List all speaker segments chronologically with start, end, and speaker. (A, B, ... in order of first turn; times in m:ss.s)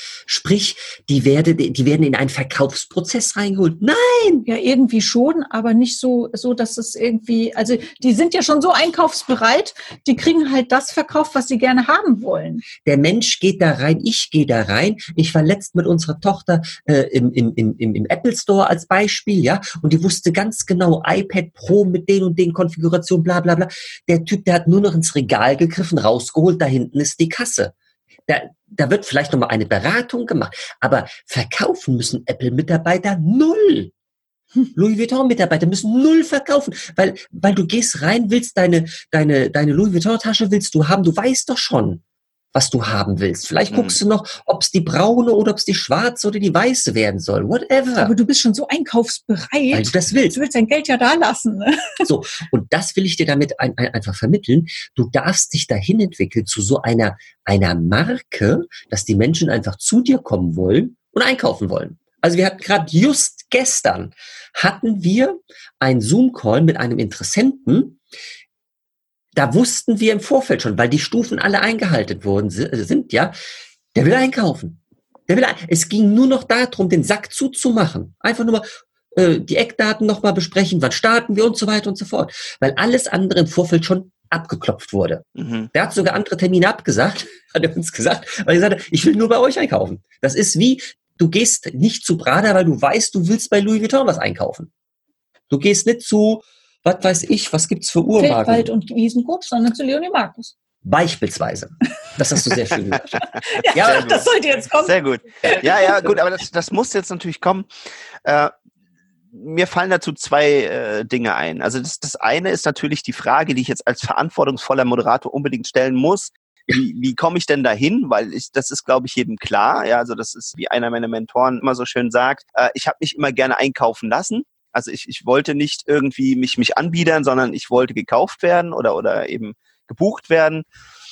0:00.3-0:04.5 A
0:04.4-0:12.6 B
0:12.8-0:27.7 A
0:28.3-0:33.9 A
0:34.7-0:42.0 A
0:42.5-0:48.1 A
0:43.7-0:44.0 C
0:48.0-0:52.0 B
0:49.7-0:50.4 A
0:52.0-1:08.0 A
1:09.3-1:13.3 A
1:13.9-1:34.7 A
1:25.4-1:25.7 C
1:35.5-1:38.7 A
1:38.2-1:40.5 B
1:40.8-1:43.1 A
1:43.5-1:46.1 B
1:43.7-1:44.1 A
1:43.7-1:47.7 C
1:48.2-1:48.5 C
1:49.3-2:10.6 C